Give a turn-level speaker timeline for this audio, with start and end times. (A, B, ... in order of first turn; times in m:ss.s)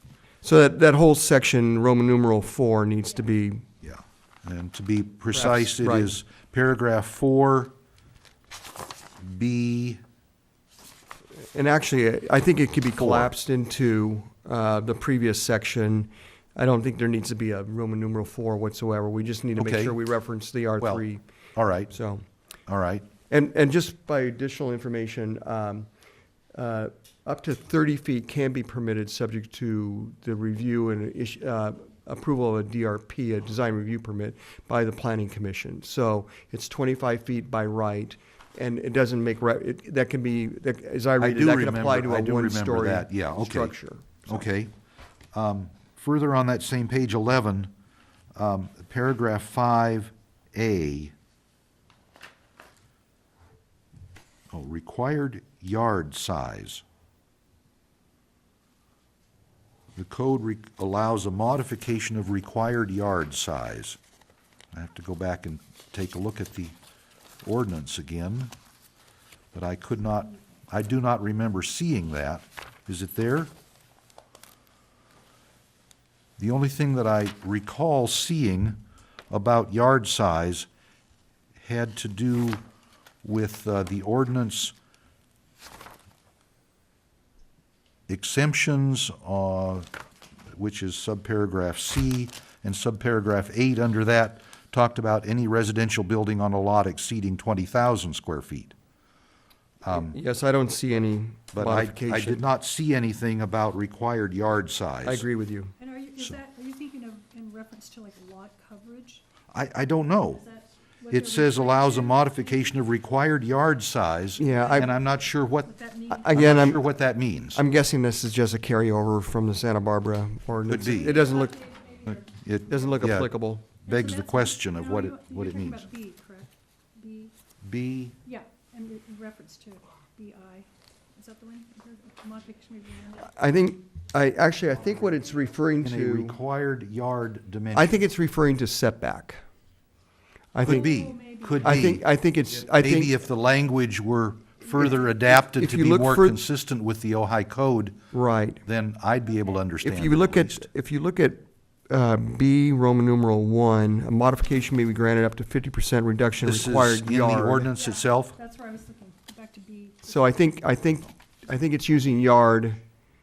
0:00.4-0:03.7 A
0:03.8-0:07.7 B
0:05.3-0:06.1 A
0:09.2-0:10.0 B
0:11.5-0:21.2 A
0:13.0-0:13.3 B
0:19.6-0:20.0 B
0:20.8-0:21.0 B
0:21.6-0:21.9 B
0:21.9-0:22.2 A
0:22.7-0:23.1 B
0:23.3-0:25.9 A
0:26.5-0:44.5 A
0:41.2-0:43.8 B
0:44.3-0:44.7 B
0:45.3-0:47.7 B
0:48.4-0:51.1 B
0:54.5-0:56.8 B
1:00.0-1:04.0 B
1:04.7-1:06.8 B
1:07.4-1:08.5 B
1:09.5-1:13.5 B
1:16.4-1:20.7 B
1:21.6-1:22.6 B
1:23.2-1:24.7 B
1:28.1-1:29.9 B
1:30.5-1:38.7 B
1:39.8-1:40.2 B
1:39.9-1:42.4 A
1:41.5-1:45.3 B
1:45.0-1:45.7 A
1:45.8-1:49.3 C
1:49.5-1:50.4 B
1:50.1-1:53.0 C
1:51.1-1:55.8 B
1:54.4-1:54.9 A
1:54.4-1:56.8 C
1:56.1-1:56.8 A
1:56.3-1:57.6 B
1:57.5-2:01.7 A
2:00.7-2:01.2 B
2:00.9-2:03.1 C
2:02.1-2:03.3 B
2:02.7-2:03.7 A
2:03.9-2:05.9 B
2:03.9-2:07.3 C
2:07.6-2:08.2 B
2:08.2-2:13.3 C
2:13.3-2:16.4 A
2:15.8-2:18.0 B
2:17.7-2:19.4 A
2:20.5-2:20.9 A
2:20.6-2:22.0 B
2:20.7-2:21.8 C
2:21.6-2:23.1 A
2:22.7-2:28.0 B
2:24.7-2:26.4 A
2:28.1-2:28.6 A
2:28.6-2:30.7 B
2:29.8-2:37.7 A
2:36.4-2:38.4 B
2:37.8-2:40.4 C
2:40.1-2:42.8 A